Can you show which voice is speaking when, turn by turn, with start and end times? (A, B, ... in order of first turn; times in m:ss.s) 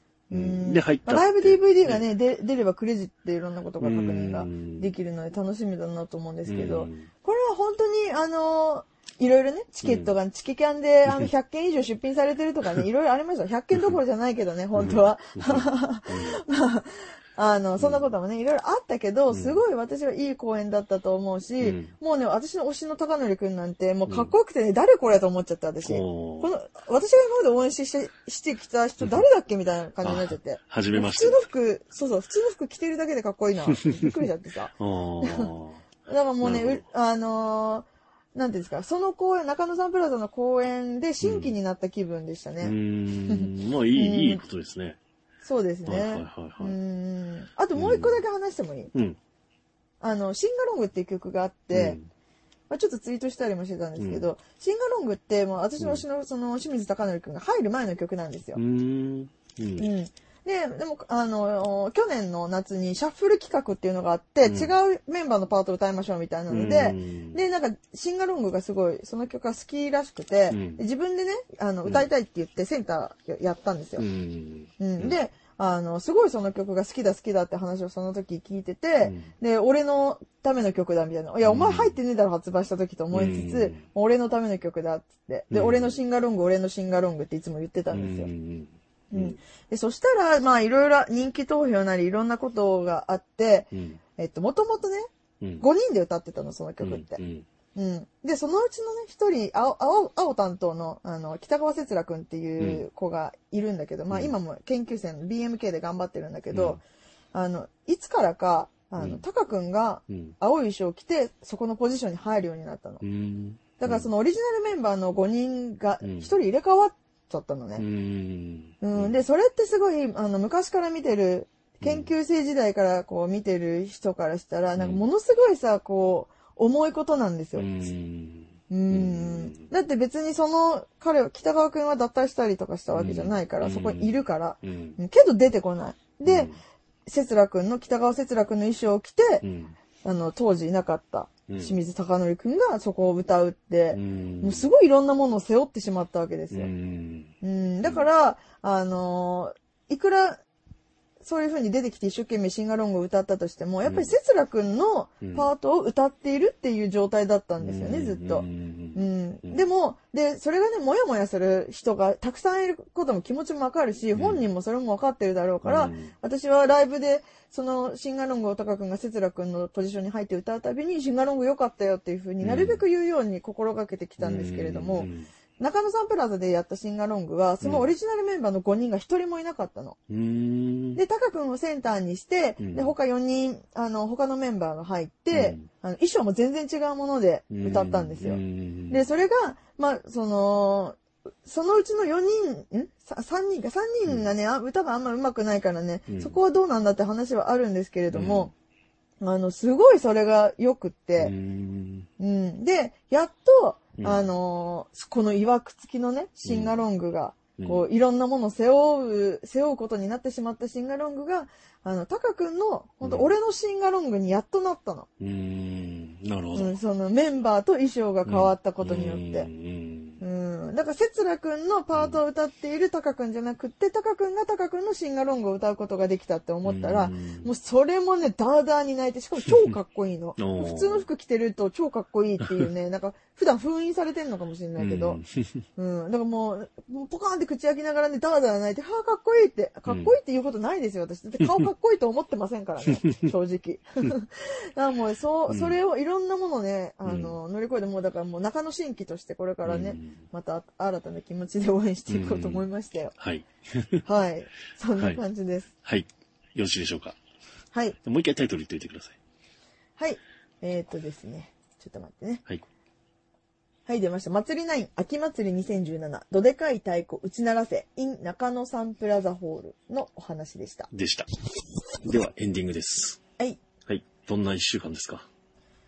0:00.3-0:35.5 A
0:00.3-0:02.0 B
0:03.8-0:04.9 B
0:06.5-0:07.1 B
0:09.8-0:10.1 B
0:14.8-0:16.4 B
0:17.8-0:18.1 B
0:19.3-0:19.6 B
0:21.6-0:21.9 B
0:24.1-0:24.3 B
0:25.8-0:26.5 B
0:30.0-0:31.4 B
0:33.9-0:34.1 B
0:34.8-0:35.8 B
0:36.1-0:42.8 A
0:36.4-0:36.8 B
0:41.2-0:41.5 B
0:42.6-0:45.0 B
0:43.3-0:44.4 A
0:45.4-0:48.9 A
0:45.9-0:46.8 B
0:47.8-0:48.2 B
0:50.0-0:52.0 A
0:51.7-0:52.1 B
0:52.7-0:58.6 A
0:54.0-0:54.3 B
0:55.8-0:56.0 B
0:58.6-0:59.9 B
0:59.8-1:14.1 A
1:04.4-1:04.7 B
1:06.5-1:07.4 B
1:10.5-1:10.8 B
1:14.0-1:15.2 B
1:14.8-1:28.3 A
1:19.0-1:19.3 B
1:21.4-1:22.0 B
1:23.1-1:23.8 B
1:25.5-1:26.0 B
1:27.9-1:29.4 B
1:29.1-1:35.1 A
1:33.7-1:34.0 B
1:35.6-1:37.2 A
1:36.8-1:37.5 B
1:37.8-1:46.8 A
1:42.6-1:42.8 B
1:44.1-1:44.4 B
1:46.5-1:46.8 B
1:47.3-1:53.0 A
1:49.0-1:49.2 B
1:50.1-1:50.4 B
1:53.0-1:54.1 B
1:53.8-1:57.8 A
1:56.0-1:56.3 B
1:57.8-1:59.2 B
1:58.8-2:07.8 A
2:01.8-2:02.1 B
2:04.8-2:05.0 B
2:07.6-2:09.7 B
2:08.7-2:16.5 A
2:12.9-2:15.0 B
2:16.3-2:16.6 B
2:17.1-2:19.4 A
2:19.4-2:19.8 B
2:20.0-2:26.7 A
2:21.5-2:21.8 B
2:23.9-2:24.7 B
2:26.5-2:27.3 B
2:27.4-2:30.4 A
2:31.2-3:00.0 A
2:33.8-2:34.1 B
2:35.2-2:35.5 B
2:37.6-2:39.6 B
2:44.2-2:44.4 B
2:45.6-2:46.1 B
2:52.4-2:52.8 B
2:54.2-2:55.3 B
2:57.6-2:57.9 B
3:00.1-3:01.0 B
3:00.9-3:18.5 A
3:02.6-3:02.9 B
3:05.3-3:05.7 B
3:07.5-3:09.0 B
3:16.1-3:16.4 B
3:18.1-3:18.5 B
3:19.2-3:21.3 A
3:21.2-3:22.1 B
3:22.2-3:35.1 A
3:24.0-3:24.3 B
3:26.4-3:26.8 B
3:27.6-3:27.8 B
3:33.0-3:33.3 B
3:35.2-3:36.8 B
3:36.5-3:39.5 A
3:38.3-3:40.2 B
3:40.2-3:55.2 A
3:41.9-3:42.2 B
3:46.6-3:47.5 B
3:50.4-3:51.1 B
3:54.8-3:55.6 B
3:55.8-4:13.1 A
3:59.9-4:00.1 B
4:02.9-4:03.1 B
4:05.5-4:05.8 B
4:07.0-4:07.4 B
4:09.6-4:10.2 B
4:12.1-4:14.0 B
4:14.1-4:15.7 A
4:15.8-4:17.2 B
4:18.0-4:19.2 B
4:20.0-4:22.4 A
4:23.9-4:30.9 A
4:30.9-4:31.3 B
4:32.0-4:33.2 B
4:33.9-4:35.3 B